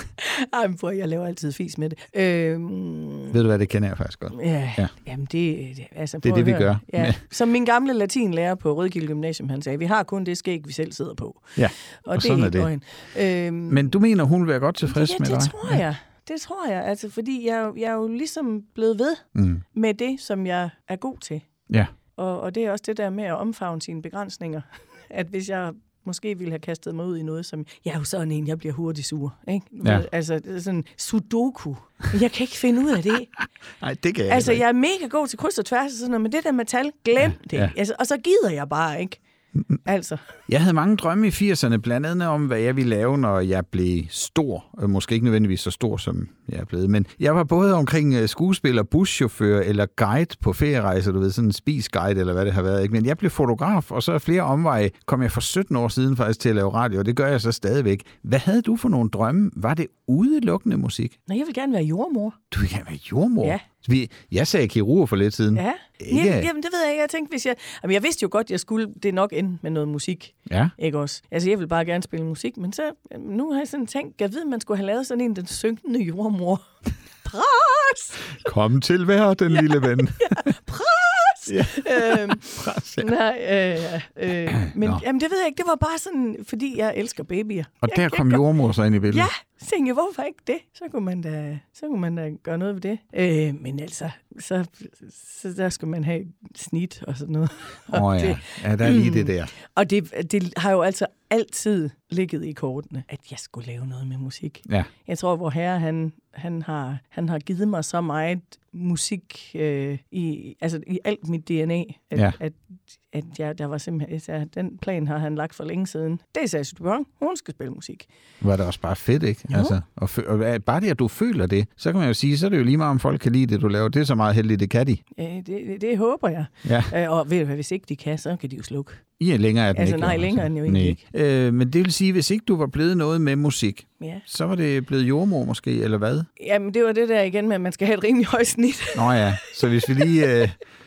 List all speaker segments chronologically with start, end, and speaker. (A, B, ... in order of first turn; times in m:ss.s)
0:00.2-0:03.4 A
0:03.3-0:04.9 B
0:04.3-0:13.9 A
0:06.2-0:07.2 B
0:11.6-0:12.7 B
0:13.7-0:15.8 B
0:14.8-0:21.4 A
0:19.3-0:19.6 B
0:22.2-0:33.4 A
0:33.8-0:34.6 B
0:34.3-0:39.2 A
0:37.2-0:37.7 B
0:39.8-0:40.2 A
0:40.5-1:01.2 B
1:01.3-1:02.4 A
1:02.5-1:06.5 B
1:05.5-1:16.6 A
1:10.5-1:10.7 B
1:17.2-1:18.2 A
1:18.4-1:20.5 B
1:19.5-1:28.4 A
1:21.5-1:23.1 B
1:24.6-1:25.0 B
1:27.8-1:29.3 B
1:29.1-1:58.1 A
1:37.9-1:39.5 B
1:58.4-2:05.0 B
1:59.5-1:59.8 A
2:05.1-2:09.0 A
2:06.6-2:06.9 B
2:09.2-2:16.3 B
2:09.7-2:11.0 A
2:16.4-2:20.3 A
2:18.9-2:20.6 B